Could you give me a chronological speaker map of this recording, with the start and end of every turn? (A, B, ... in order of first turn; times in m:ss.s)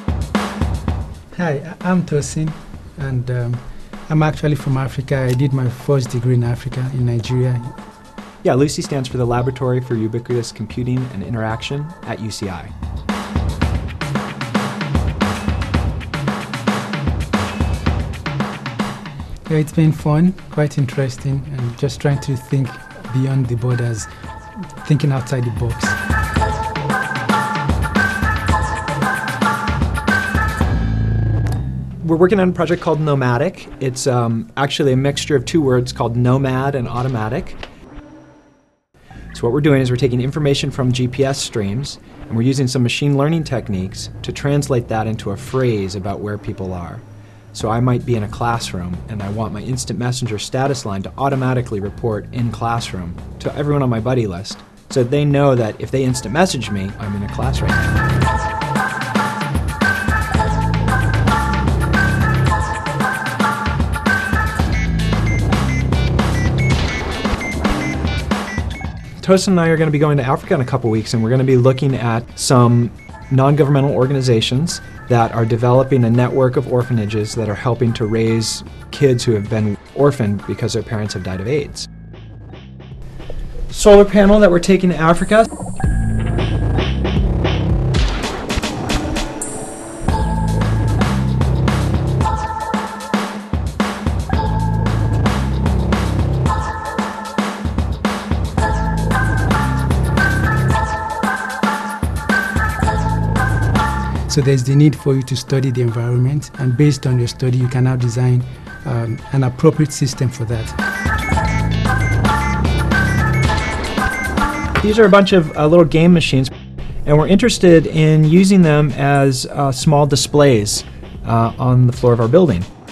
0:01.3-0:07.8 A
0:08.4-0:12.7 B
0:19.5-0:24.1 A
0:24.8-0:26.0 A
0:32.0-0:37.6 B
0:39.3-0:58.1 B
1:09.2-1:21.9 B
1:23.7-1:25.5 B
1:44.3-1:50.8 A
1:54.8-1:56.5 B
1:57.0-2:02.7 B